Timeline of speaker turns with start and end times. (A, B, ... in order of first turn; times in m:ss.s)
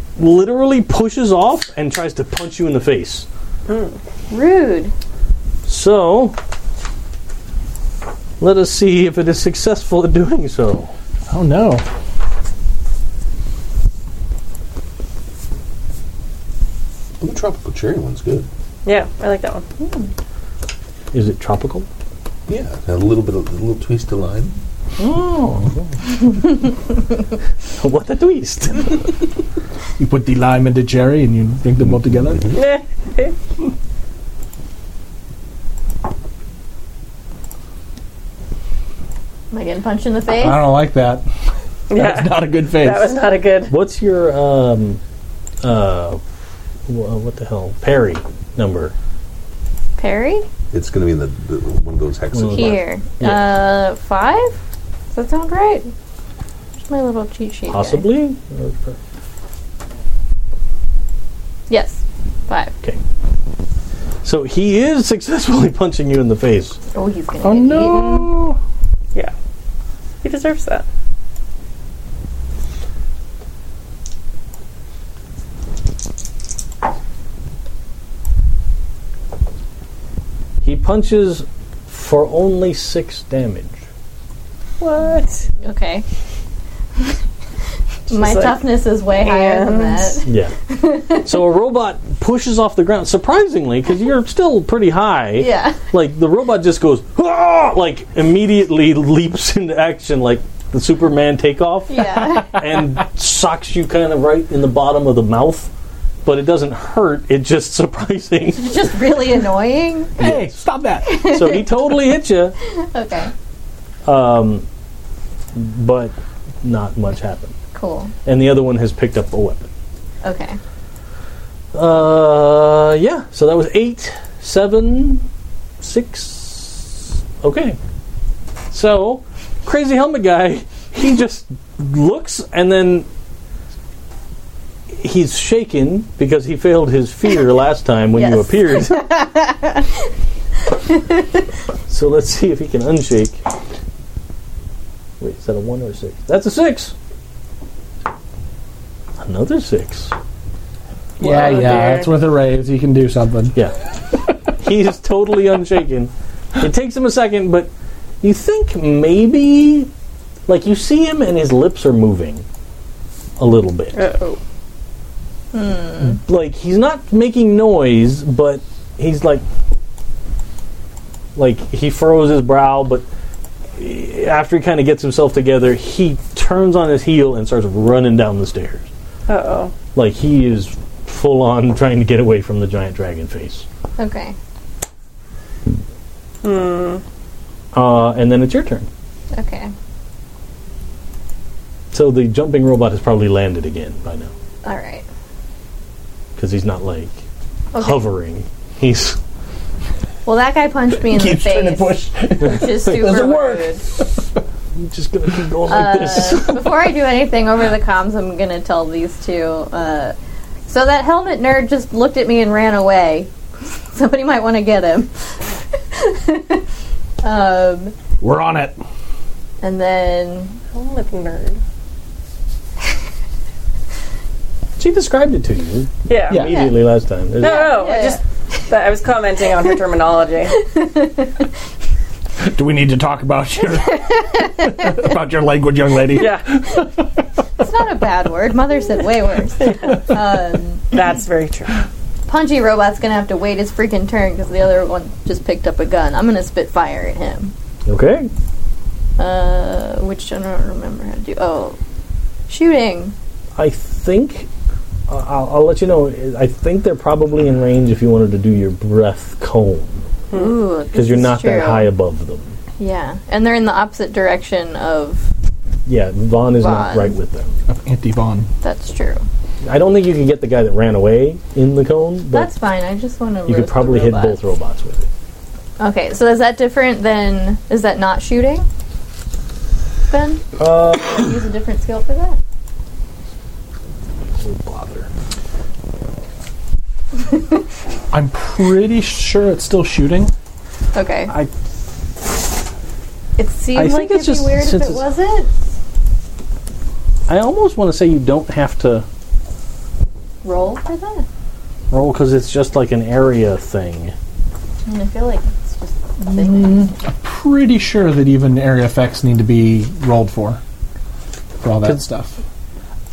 0:00.2-0:03.3 A
0:03.7-0:04.0 B
0:04.3-0:04.9 C
0:05.7-0:06.4 A
0:08.4-0:10.9 A
0:11.3-0:11.8 D
0:17.2-0:18.5 E
0:18.8-0:19.7 B
0:21.1-0:21.9 A
0:22.5-0:24.6 E
0:25.0-0:25.9 A
0:27.8-0:29.2 A
0:30.0-0:32.6 D
0:32.5-0:33.4 B
0:39.5-0:40.7 C
0:40.4-0:41.2 D
0:41.9-0:43.8 B
0:41.9-0:43.2 D
0:43.7-0:45.0 A
0:45.6-0:46.2 A
0:46.9-0:48.9 A
0:50.0-0:50.4 C
0:50.7-0:52.8 E
0:52.3-0:53.5 A
0:52.5-0:54.6 C
0:55.1-0:55.9 C
0:56.8-0:58.1 C
0:57.7-0:59.0 A
1:01.7-1:02.7 C
1:04.2-1:06.8 A
1:06.9-1:08.4 C
1:07.4-1:08.6 D
1:10.2-1:10.8 B
1:20.6-1:23.8 A
1:24.8-1:25.5 B
1:25.6-1:26.0 C
1:28.1-1:30.2 B
1:28.1-1:31.3 C
1:30.3-1:30.6 A
1:31.2-1:45.7 A
1:35.4-1:35.8 C
1:41.9-1:42.5 C
1:46.2-1:48.8 A
1:48.6-1:50.2 C
1:50.2-1:51.3 D
1:50.2-1:50.6 A
1:51.0-1:52.0 C
1:51.1-1:52.6 A
1:52.6-1:53.3 C
1:54.0-1:54.6 A
1:55.6-1:57.6 A
1:57.7-1:58.1 C
1:58.2-1:59.7 A
2:00.2-2:00.6 C
2:01.7-2:05.2 A
2:05.8-2:07.8 A
2:08.7-2:13.1 A
2:14.9-2:19.1 A
2:18.1-2:19.9 C
2:21.9-2:23.4 A
2:25.2-2:26.9 A
2:29.2-2:30.1 A
2:31.2-2:32.1 B
2:31.2-2:33.6 D
2:34.5-2:37.7 A
2:38.2-2:39.9 A
2:40.5-2:42.4 A
2:43.4-2:44.1 A
2:43.9-2:44.4 B
2:45.5-2:46.2 C
2:46.0-2:49.4 A
2:51.4-2:53.0 A
2:53.8-2:58.9 A
2:59.3-2:59.7 B
2:59.9-3:03.6 A
3:04.0-3:04.4 C
3:06.4-3:07.0 B
3:07.7-3:08.9 A
3:09.3-3:09.7 C
3:11.9-3:14.3 A
3:14.6-3:15.0 C
3:16.4-3:17.1 A
3:17.7-3:18.0 C
3:17.8-3:19.2 A
3:20.3-3:23.8 C
3:21.0-3:23.8 D
3:24.8-3:26.8 A
3:25.7-3:30.1 C
3:30.7-3:33.3 C
3:33.9-3:35.4 C
3:35.9-3:36.6 C
3:37.2-3:38.0 C
3:38.2-3:38.8 D
3:39.6-3:40.6 C
3:40.7-3:41.6 B
3:44.8-3:47.8 A
3:46.1-3:46.5 B
3:46.3-3:46.6 D
3:46.4-3:48.2 C
3:47.4-3:50.6 B
3:50.8-3:51.3 C
3:52.4-3:56.9 D
3:56.1-3:56.5 B
3:57.6-4:00.9 C
3:59.6-4:00.0 B
4:00.9-4:01.8 B
4:02.3-4:07.5 C
4:07.9-4:08.3 A
4:09.2-4:11.8 C
4:12.5-4:13.1 C
4:13.6-4:14.5 A
4:15.1-4:20.0 A
4:20.3-4:21.9 C
4:20.9-4:22.6 A
4:22.8-4:25.3 C
4:25.9-4:27.6 A
4:26.6-4:27.2 C
4:27.7-4:28.5 D
4:28.6-4:29.2 C
4:29.6-4:32.5 A
4:32.3-4:34.4 C
4:33.5-4:35.1 A
4:35.8-4:38.7 C
4:40.1-4:42.4 C
4:40.6-4:41.2 A
4:44.4-4:45.1 A
4:48.1-4:50.3 D
4:50.9-4:51.3 C
4:53.4-4:55.5 C
4:53.8-4:55.1 A
4:57.3-4:59.0 A
5:00.4-5:01.3 C
5:01.9-5:04.1 A
5:04.9-5:07.0 C
5:06.3-5:10.6 D
5:11.6-5:12.4 D